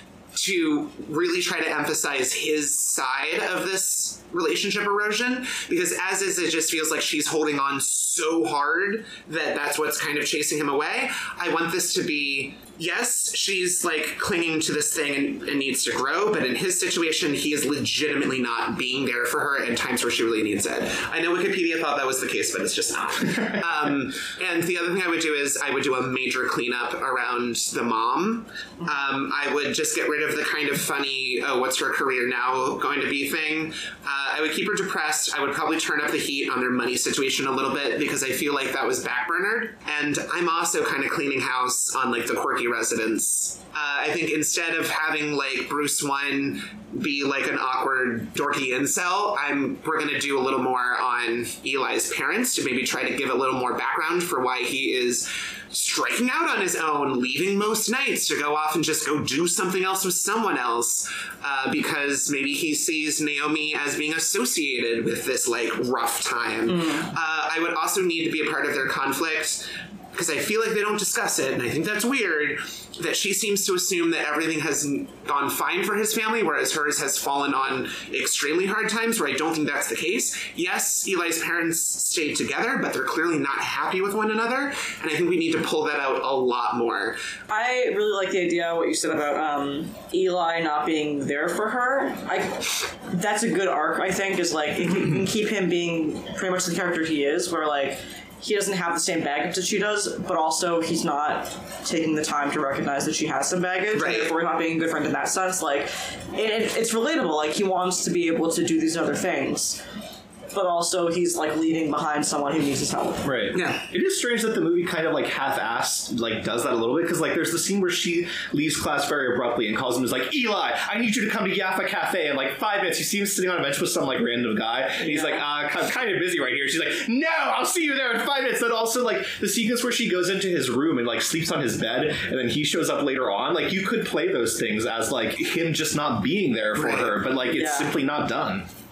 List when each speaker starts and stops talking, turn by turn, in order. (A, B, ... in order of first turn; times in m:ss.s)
0:00.4-1:27.2 A
1:06.7-1:07.1 B
1:27.5-1:49.8 B
1:43.9-1:44.3 A
1:50.5-1:53.3 B
1:53.2-2:18.7 C
1:53.5-1:53.8 A
2:05.0-2:05.4 B
2:16.8-2:17.2 A
2:17.5-2:17.9 B